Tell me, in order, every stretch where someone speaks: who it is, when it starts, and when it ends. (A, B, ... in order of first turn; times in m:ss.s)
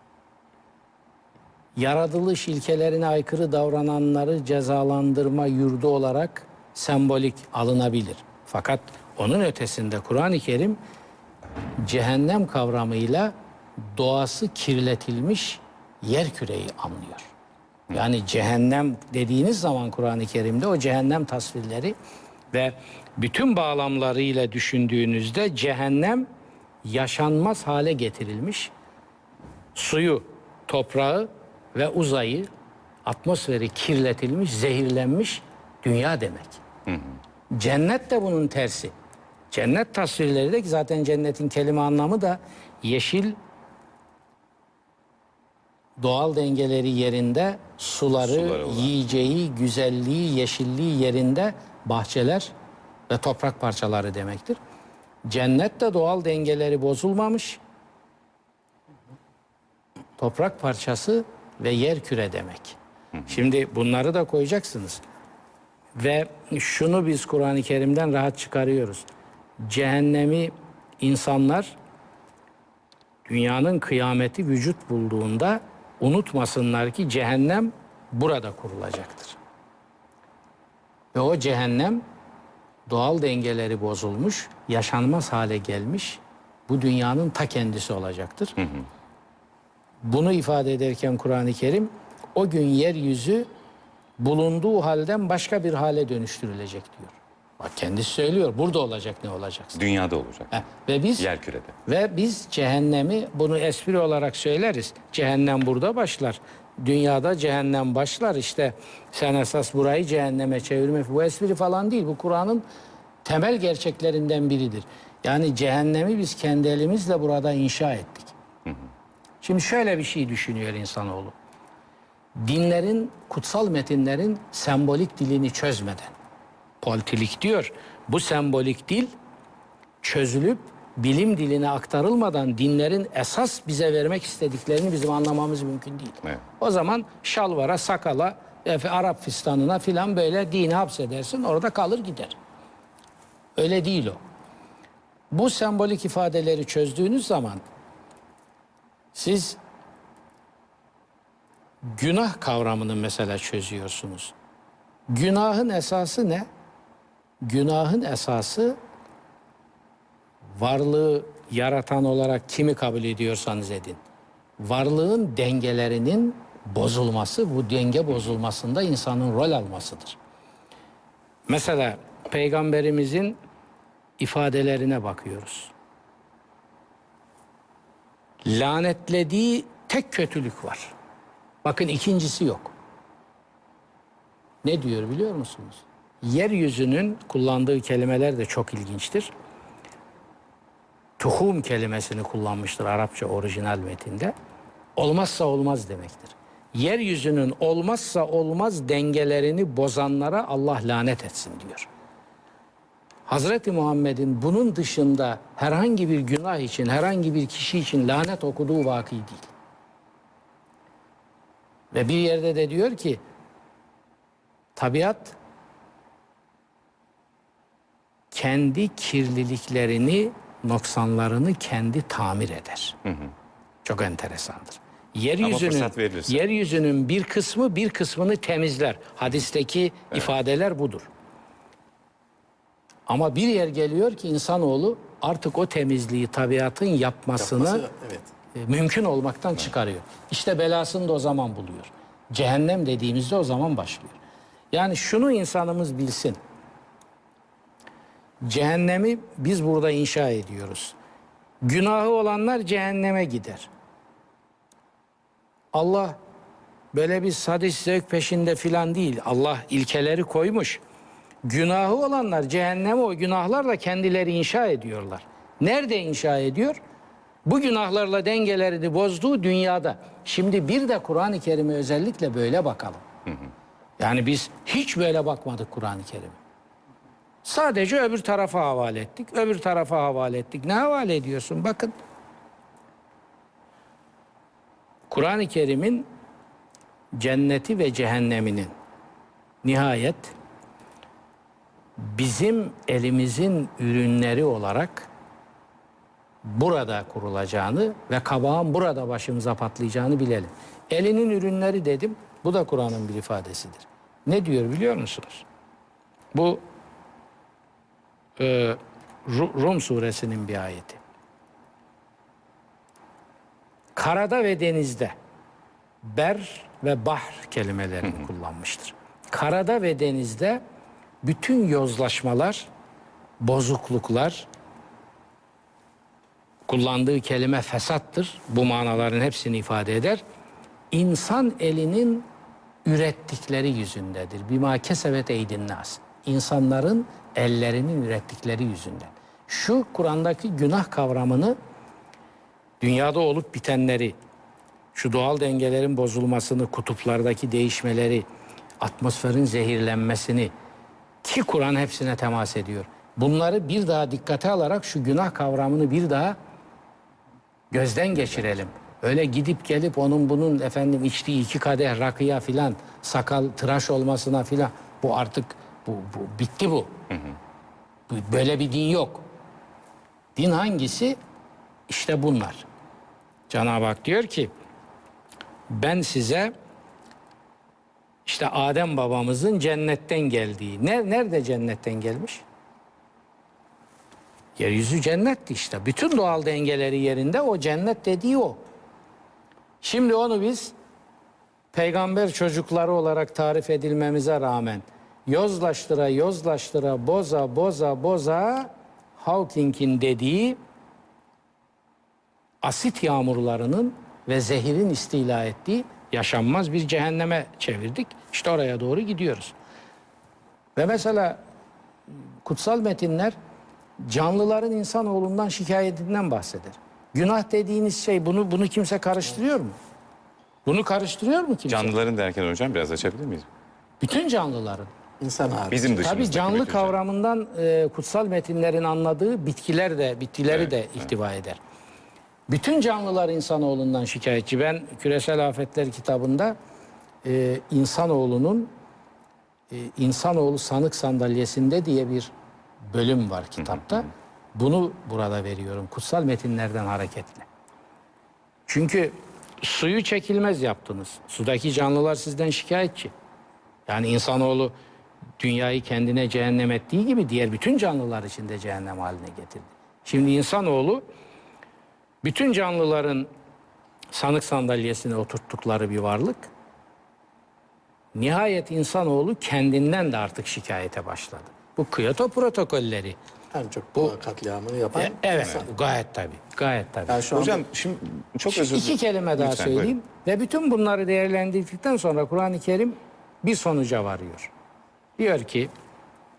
0:01.8-0:10.8 A
0:11.8-0:17.3 A
0:17.9-0:22.0 A
0:22.5-0:26.3 A
0:26.8-0:28.7 A
0:29.7-0:32.5 A
0:33.0-0:36.6 A
0:36.9-0:37.2 B
0:37.5-0:38.9 A
0:39.5-0:43.4 A
0:46.0-0:52.5 A
0:48.2-0:49.0 B
0:53.1-0:54.6 A
0:55.3-0:57.6 A
1:00.2-1:02.8 A
1:03.3-1:05.0 A
1:05.9-1:09.0 A
1:09.6-1:11.7 A
1:13.3-1:19.4 A
1:21.1-1:22.0 A
1:22.9-1:28.5 A
1:28.6-1:28.8 B
1:30.0-1:33.5 A
1:34.2-1:39.8 A
1:39.7-1:40.5 B
1:40.5-1:41.2 A
1:41.2-1:41.8 B
1:41.9-1:52.6 A
1:53.2-1:58.3 A
1:59.4-2:01.3 A
2:02.4-2:06.1 A
2:06.8-2:09.1 A
2:10.0-2:22.4 A
2:23.6-2:24.2 A
2:25.3-2:27.6 A
2:29.1-2:29.6 A
2:31.8-2:34.3 A
2:35.1-2:36.5 A
2:37.4-2:38.8 A
2:40.6-2:44.0 A
2:44.6-2:50.2 A
2:51.5-2:53.4 A
2:54.2-2:55.7 A
2:58.4-3:00.9 A
3:01.6-3:02.7 A
3:04.6-3:09.3 A
3:11.2-3:14.3 A
3:15.0-3:21.9 A
3:23.3-3:29.5 A
3:31.9-3:33.2 A
3:34.8-3:35.4 A
3:38.3-3:43.0 A
3:43.0-3:43.3 B
3:43.8-3:51.1 A
3:45.4-3:46.4 B
3:53.1-3:57.8 A
3:57.4-3:58.3 C
3:58.6-4:04.2 A
4:04.7-4:06.4 A
4:08.4-4:10.9 A
4:11.6-4:13.7 A
4:15.7-4:16.2 A
4:16.9-4:20.8 A
4:21.4-4:26.8 A
4:27.4-4:33.0 A
4:34.0-4:36.4 A
4:37.4-4:41.9 A
4:45.1-4:46.1 A
4:47.1-4:48.7 A
4:49.6-4:50.3 A
4:52.0-4:55.1 A
4:56.4-5:05.4 A
5:06.3-5:06.6 A
5:08.4-5:11.0 A
5:14.0-5:15.1 A
5:16.0-5:20.6 A
5:21.2-5:22.7 A
5:23.4-5:24.5 A
5:26.7-5:30.2 A
5:30.9-5:32.2 A
5:32.8-5:41.6 A
5:42.8-5:44.2 A
5:44.9-5:48.2 A
5:48.8-5:50.5 A
5:51.2-5:56.4 A
5:57.7-6:07.0 A
6:07.1-6:07.3 B
6:08.1-6:09.2 A
6:10.4-6:11.2 A
6:11.9-6:12.6 A
6:13.5-6:14.5 A
6:15.7-6:16.5 A
6:18.2-6:22.4 A
6:24.6-6:28.6 A
6:29.8-6:30.7 A
6:31.7-6:40.6 A
6:42.6-6:49.5 A
6:50.8-6:51.4 A
6:52.4-6:53.4 A
6:54.0-6:59.8 A
7:00.6-7:01.9 A
7:01.7-7:03.4 B
7:04.0-7:04.9 A
7:05.2-7:06.1 C
7:05.7-7:07.0 B
7:06.0-7:11.6 A
7:10.5-7:11.1 B
7:12.5-7:16.6 A
7:17.2-7:18.7 A
7:19.7-7:27.4 A
7:23.6-7:24.0 B
7:28.7-7:33.1 A
7:33.9-7:34.7 A
7:35.4-7:41.1 A
7:42.2-7:43.3 A
7:44.1-7:46.5 A
7:48.1-7:53.2 A
7:53.5-7:55.7 C
7:55.0-7:57.3 A
7:57.1-7:57.6 C
7:57.3-7:59.9 B
7:58.5-8:04.5 A
8:05.2-8:05.7 A